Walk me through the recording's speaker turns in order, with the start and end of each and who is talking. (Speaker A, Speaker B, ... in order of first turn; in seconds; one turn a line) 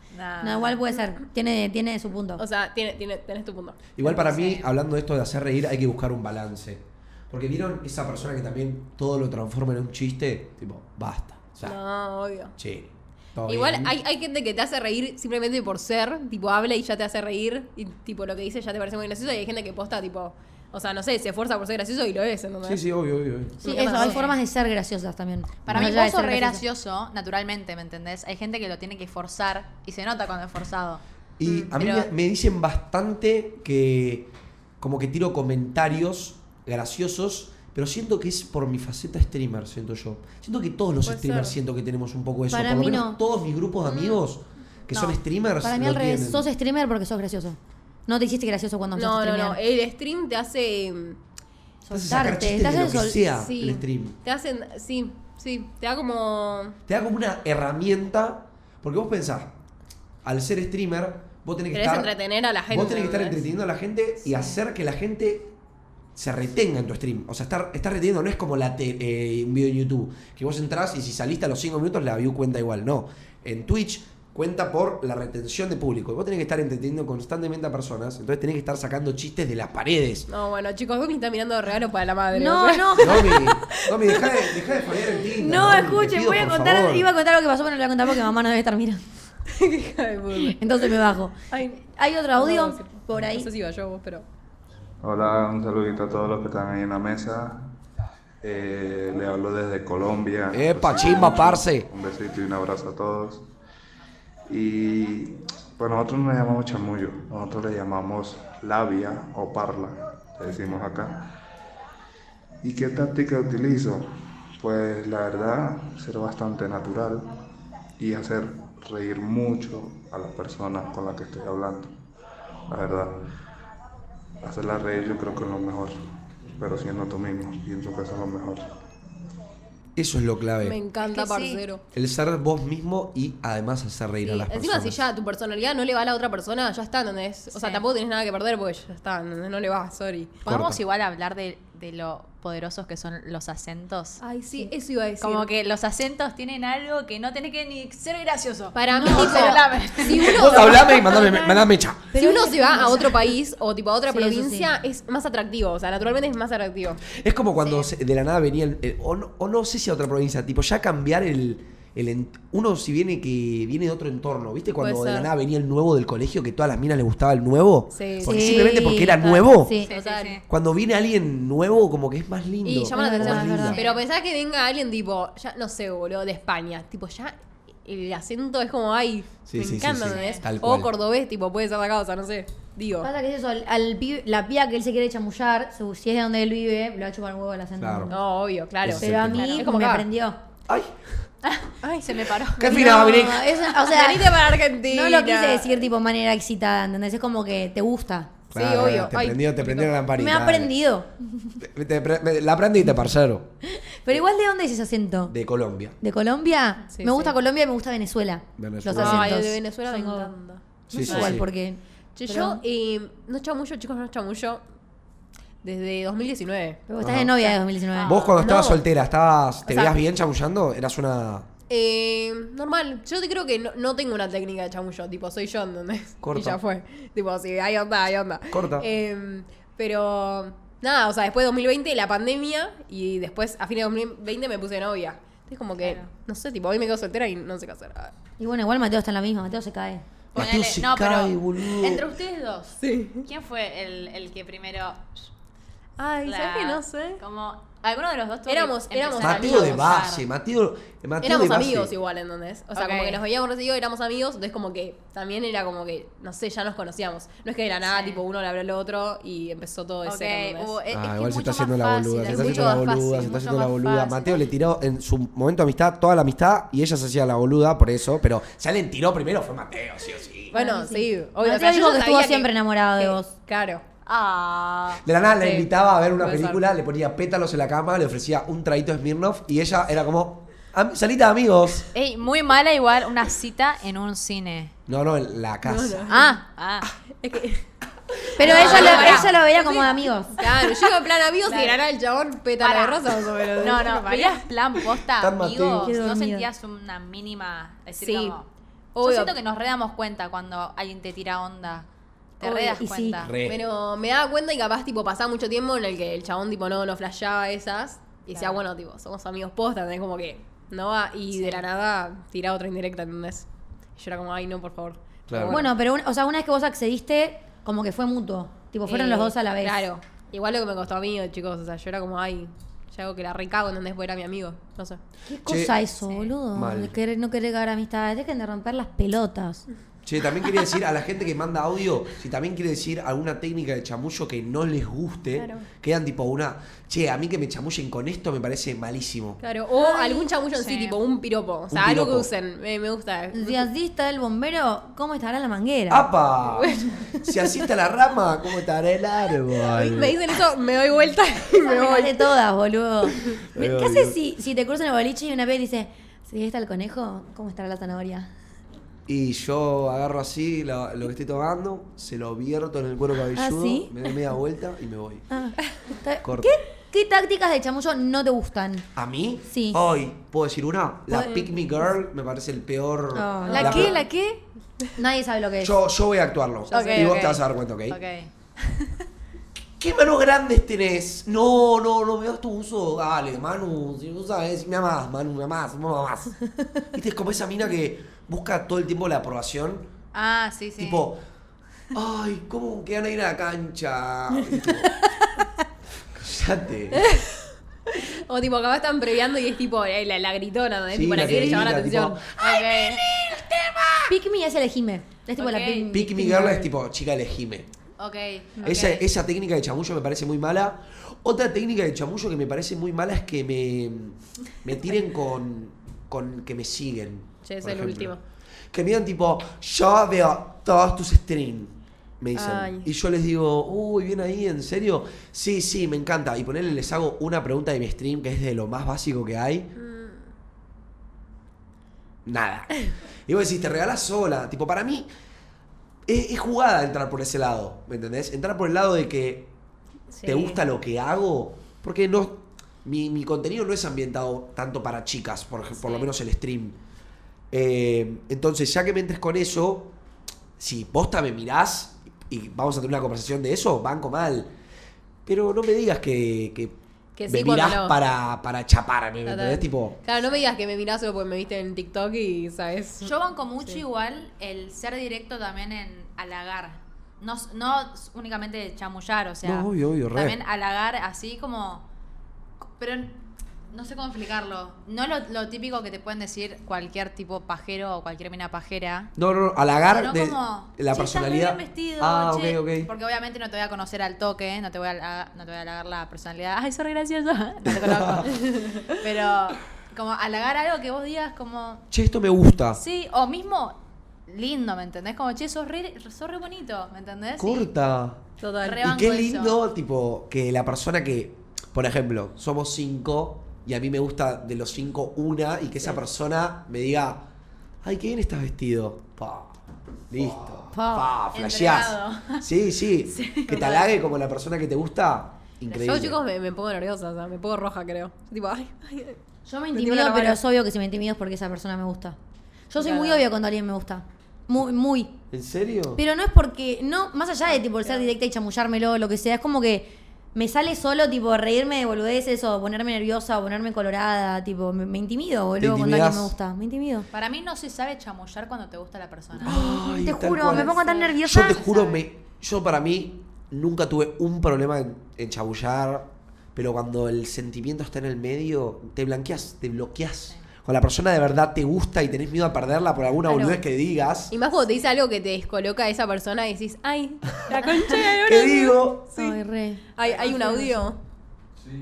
Speaker A: 0.1-0.8
Speaker B: 0.4-2.4
Speaker C: 2.4-3.9
Speaker D: 4.0-11.8
Speaker A: 4.1-4.7
Speaker C: 11.6-12.5
Speaker D: 12.6-13.9
Speaker C: 13.5-22.8
Speaker D: 22.6-23.6
Speaker C: 23.6-24.2
Speaker B: 23.6-26.6
Speaker A: 23.7-24.4
Speaker A: 25.6-31.0
Speaker D: 31.4-46.5
Speaker C: 31.4-31.7
Speaker A: 31.8-32.1
Speaker C: 41.0-41.5
Speaker B: 42.5-43.2
Speaker A: 44.9-45.2
Speaker B: 45.6-49.6
Speaker C: 48.9-51.2
Speaker B: 51.8-53.2
Speaker D: 51.9-54.2
Speaker C: 53.4-56.8
Speaker D: 56.9-59.5
Speaker D: 60.2-62.1
Speaker C: 61.7-63.5
Speaker D: 62.7-65.5
Speaker D: 66.1-80.3
Speaker C: 80.3-84.9
Speaker B: 82.3-83.4
Speaker D: 83.0-87.1
Speaker B: 85.3-89.0
Speaker C: 89.5-91.0
Speaker B: 90.4-93.5
Speaker C: 91.5-91.8
Speaker C: 92.3-94.2
Speaker E: 95.0-97.6
Speaker E: 98.4-103.4
Speaker D: 100.5-101.9
Speaker E: 104.5-111.3
Speaker E: 112.6-117.3
Speaker E: 118.0-121.9
Speaker E: 122.7-123.2
Speaker E: 124.4-128.7
Speaker D: 129.9-130.8
Speaker C: 130.6-131.8
Speaker A: 131.1-131.6
Speaker D: 131.9-135.0
Speaker C: 134.2-140.4
Speaker A: 137.5-137.8
Speaker A: 140.4-144.2
Speaker D: 140.4-140.8
Speaker C: 144.2-145.5
Speaker A: 145.2-150.5
Speaker C: 148.7-157.0
Speaker B: 148.9-150.2
Speaker D: 150.2-152.1
Speaker B: 152.1-153.3
Speaker B: 154.1-154.7
Speaker D: 157.1-169.8
Speaker C: 164.8-165.3
Speaker C: 167.9-169.2
Speaker B: 168.2-169.9
Speaker A: 169.8-170.4
Speaker C: 169.8-170.4
Speaker D: 170.5-173.8
Speaker C: 172.6-183.1
Speaker B: 172.9-173.9
Speaker A: 173.7-174.0
Speaker D: 179.4-180.9
Speaker A: 180.1-180.4
Speaker B: 183.0-188.2
Speaker D: 187.8-188.1
Speaker C: 188.1-190.1
Speaker D: 188.8-189.6
Speaker B: 189.0-190.4
Speaker D: 190.7-191.0
Speaker A: 191.4-192.7
Speaker C: 191.8-195.8
Speaker D: 192.6-193.6
Speaker B: 192.6-198.4
Speaker D: 198.5-200.7
Speaker C: 198.5-199.9
Speaker B: 200.1-201.1
Speaker D: 201.6-203.5
Speaker B: 203.6-205.3
Speaker D: 205.3-206.0
Speaker B: 206.0-210.3
Speaker C: 206.9-207.3
Speaker D: 208.6-209.4
Speaker C: 208.9-211.3
Speaker D: 210.9-211.5
Speaker B: 210.9-212.6
Speaker C: 212.2-214.6
Speaker C: 215.6-216.8
Speaker B: 216.9-218.2
Speaker D: 217.0-217.4
Speaker A: 217.9-218.4
Speaker D: 218.1-221.5
Speaker C: 218.4-218.8
Speaker C: 219.7-219.9
Speaker C: 221.7-238.1
Speaker D: 226.2-226.6
Speaker D: 228.5-228.8
Speaker A: 235.8-236.1
Speaker B: 238.4-240.0
Speaker D: 240.3-242.1
Speaker A: 240.3-245.3
Speaker C: 242.8-243.2
Speaker C: 246.0-247.2
Speaker A: 246.2-250.2
Speaker C: 248.5-249.8
Speaker D: 249.2-251.9
Speaker C: 251.2-260.7
Speaker A: 252.7-253.2
Speaker A: 257.9-258.2
Speaker A: 260.0-264.4
Speaker D: 260.9-270.6
Speaker C: 262.3-263.3
Speaker C: 270.5-273.8
Speaker B: 270.5-273.3
Speaker A: 274.1-275.0
Speaker D: 275.0-281.9
Speaker C: 275.4-276.6
Speaker A: 281.9-284.7
Speaker D: 284.9-286.1
Speaker C: 285.6-286.2
Speaker A: 286.1-286.9
Speaker B: 286.1-286.4
Speaker C: 287.2-287.7
Speaker B: 288.4-290.4
Speaker C: 288.4-294.4
Speaker A: 288.4-289.3
Speaker D: 288.4-289.1
Speaker A: 291.4-291.8
Speaker A: 292.6-298.5
Speaker D: 295.2-296.0
Speaker B: 295.8-296.5
Speaker C: 298.0-298.4
Speaker C: 298.9-299.3
Speaker A: 299.0-301.9
Speaker A: 302.4-303.3
Speaker B: 302.4-303.2
Speaker D: 303.2-303.7
Speaker C: 303.4-315.7
Speaker A: 308.3-308.6
Speaker A: 311.3-311.6
Speaker D: 315.3-315.6
Speaker B: 315.5-319.8
Speaker C: 318.8-325.0
Speaker B: 325.3-329.6
Speaker D: 325.4-325.8
Speaker A: 326.1-326.3
Speaker D: 326.5-326.9
Speaker D: 330.0-339.4
Speaker C: 335.4-335.7
Speaker C: 339.4-343.6
Speaker A: 340.5-341.0
Speaker D: 341.7-342.3
Speaker B: 343.3-346.1
Speaker D: 345.9-350.2
Speaker C: 346.6-347.0
Speaker C: 349.7-352.2
Speaker B: 351.6-358.3
Speaker D: 353.5-354.1
Speaker D: 359.1-365.2
Speaker B: 363.3-363.9
Speaker B: 365.3-368.9
Speaker D: 366.2-366.5
Speaker D: 368.9-374.0
Speaker B: 369.5-369.8
Speaker B: 371.1-371.4
Speaker B: 373.1-373.9
Speaker C: 373.4-373.9
Speaker A: 373.5-374.4
Speaker B: 375.0-375.7
Speaker D: 375.6-378.0
Speaker A: 376.7-378.9
Speaker C: 376.7-377.2
Speaker D: 379.8-386.4
Speaker D: 386.9-389.9
Speaker A: 390.1-391.1
Speaker D: 390.8-391.2
Speaker D: 391.9-394.9
Speaker D: 396.1-397.1
Speaker C: 397.0-397.4
Speaker C: 397.9-402.2
Speaker D: 400.9-404.1
Speaker A: 402.4-403.0
Speaker B: 404.1-406.7
Speaker A: 405.4-405.9
Speaker D: 405.9-407.7
Speaker A: 408.0-409.0
Speaker D: 408.6-418.2
Speaker C: 417.4-418.2
Speaker D: 418.7-429.7
Speaker C: 422.3-422.9
Speaker C: 429.8-430.3
Speaker D: 432.2-435.1
Speaker D: 436.1-439.5
Speaker C: 440.1-440.6
Speaker D: 440.2-446.8
Speaker A: 445.8-446.1
Speaker D: 447.5-449.9
Speaker D: 450.6-454.5
Speaker D: 455.2-456.8
Speaker C: 457.1-458.0
Speaker D: 457.3-460.0
Speaker C: 459.2-463.8
Speaker A: 460.2-460.5
Speaker A: 463.0-471.9
Speaker D: 469.4-470.4
Speaker A: 472.8-473.2
Speaker A: 473.7-479.1
Speaker D: 479.2-482.9
Speaker A: 479.9-491.9
Speaker D: 487.6-488.3
Speaker C: 488.3-488.9
Speaker D: 491.9-492.8
Speaker A: 492.7-497.7
Speaker D: 497.4-498.2
Speaker C: 498.4-498.8
Speaker A: 498.6-499.6
Speaker D: 498.8-507.3
Speaker D: 507.8-509.6
Speaker D: 510.1-516.2
Speaker B: 510.7-511.1
Speaker A: 511.3-512.5
Speaker A: 513.1-513.9
Speaker A: 515.7-516.0
Speaker C: 515.8-519.2
Speaker B: 519.5-522.1
Speaker C: 519.7-520.4
Speaker B: 522.7-525.1
Speaker C: 522.8-523.2
Speaker D: 525.3-526.0
Speaker B: 526.0-537.1
Speaker C: 527.8-528.1
Speaker D: 535.6-536.3
Speaker A: 537.1-539.5
Speaker D: 539.4-554.3
Speaker B: 539.4-541.6
Speaker A: 540.4-542.0
Speaker C: 553.3-553.6
Speaker C: 554.3-559.4
Speaker D: 557.9-559.1
Speaker B: 559.1-560.8
Speaker C: 559.9-561.0
Speaker A: 560.0-560.6